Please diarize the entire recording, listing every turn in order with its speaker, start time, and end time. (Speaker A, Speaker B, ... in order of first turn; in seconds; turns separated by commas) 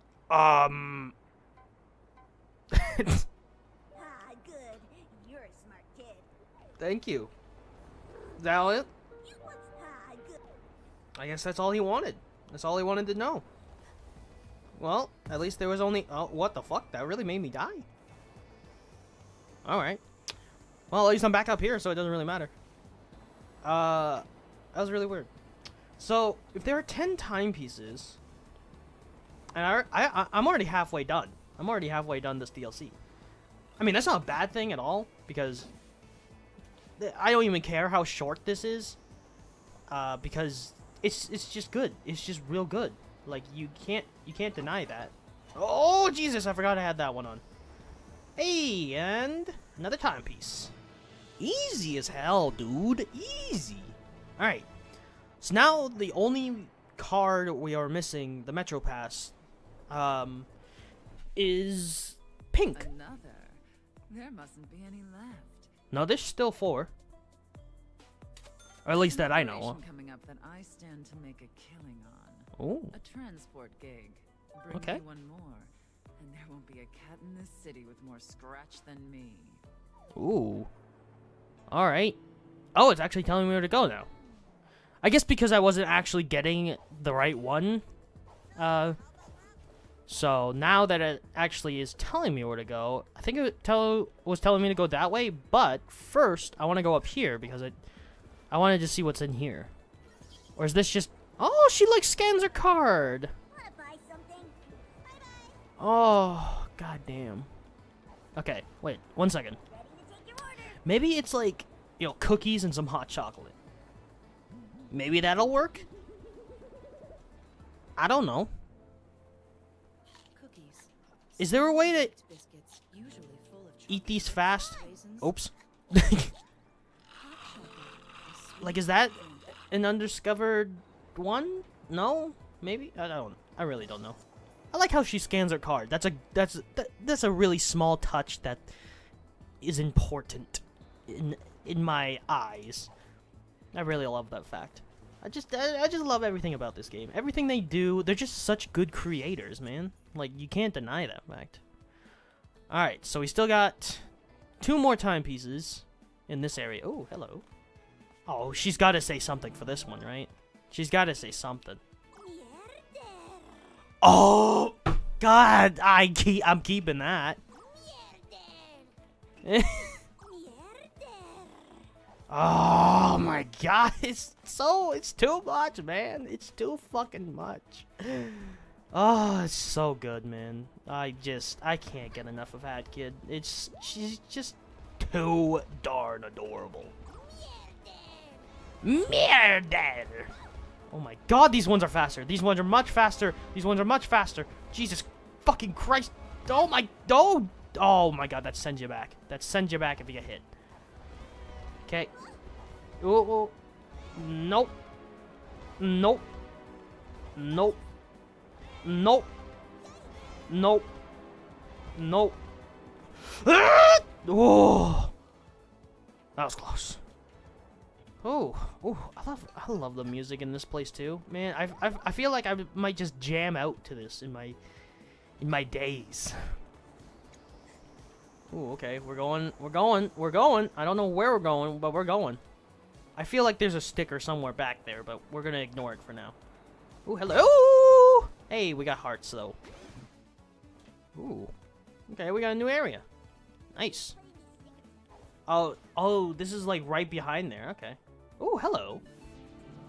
Speaker A: 0.3-1.1, Speaker A: 2.7-3.2, Speaker B: 3.9-6.3, Speaker A: 6.8-7.3, Speaker A: 8.4-8.9, Speaker B: 9.2-10.4, Speaker A: 11.2-13.5, Speaker A: 14.8-17.9, Speaker A: 19.6-20.0, Speaker A: 20.9-22.5, Speaker A: 23.6-25.3, Speaker A: 26.0-28.2, Speaker A: 29.5-33.0, Speaker A: 33.8-35.7, Speaker A: 37.0-39.0, Speaker A: 39.9-47.4, Speaker A: 48.4-50.7, Speaker A: 51.4-54.7, Speaker A: 55.4-59.3, Speaker A: 59.9-60.5, Speaker A: 61.4-62.9, Speaker C: 62.7-65.7, Speaker A: 65.9-66.9, Speaker A: 68.8-69.8, Speaker C: 68.9-79.6, Speaker A: 72.6-72.9, Speaker A: 74.7-75.0, Speaker A: 80.2-80.7, Speaker A: 81.7-82.2, Speaker A: 82.8-84.1, Speaker A: 85.0-87.8, Speaker A: 88.6-89.0, Speaker A: 90.1-97.8, Speaker A: 98.5-99.7, Speaker A: 100.6-103.3, Speaker B: 103.5-104.6, Speaker B: 105.1-105.6, Speaker A: 105.8-107.5, Speaker A: 108.4-109.6, Speaker B: 109.7-110.8, Speaker A: 110.8-113.6, Speaker A: 114.9-115.9, Speaker A: 118.0-118.5, Speaker D: 120.3-125.4, Speaker A: 121.4-122.1, Speaker A: 123.9-126.3, Speaker D: 127.2-129.5, Speaker A: 128.6-134.2, Speaker A: 134.7-138.7, Speaker A: 139.6-142.9, Speaker A: 143.7-151.6, Speaker A: 152.7-154.1, Speaker A: 154.6-157.4, Speaker A: 158.3-161.8, Speaker B: 162.2-163.8, Speaker A: 164.0-167.4, Speaker B: 167.6-168.9, Speaker A: 169.4-170.0, Speaker B: 170.2-171.9, Speaker A: 172.3-186.9, Speaker B: 187.1-188.5, Speaker A: 188.8-190.3, Speaker A: 190.9-200.5, Speaker A: 203.0-203.6, Speaker A: 204.2-204.7, Speaker A: 205.8-206.3, Speaker A: 207.4-207.8, Speaker A: 208.8-209.3, Speaker A: 210.5-210.9, Speaker A: 212.0-212.4, Speaker A: 213.2-215.1, Speaker A: 216.4-217.0, Speaker A: 218.2-224.6, Speaker A: 225.4-226.6, Speaker A: 228.5-232.4, Speaker A: 233.2-236.4, Speaker A: 237.1-239.6, Speaker A: 241.2-241.5, Speaker A: 242.1-243.1, Speaker A: 243.7-244.2, Speaker B: 244.1-244.8, Speaker A: 245.5-249.0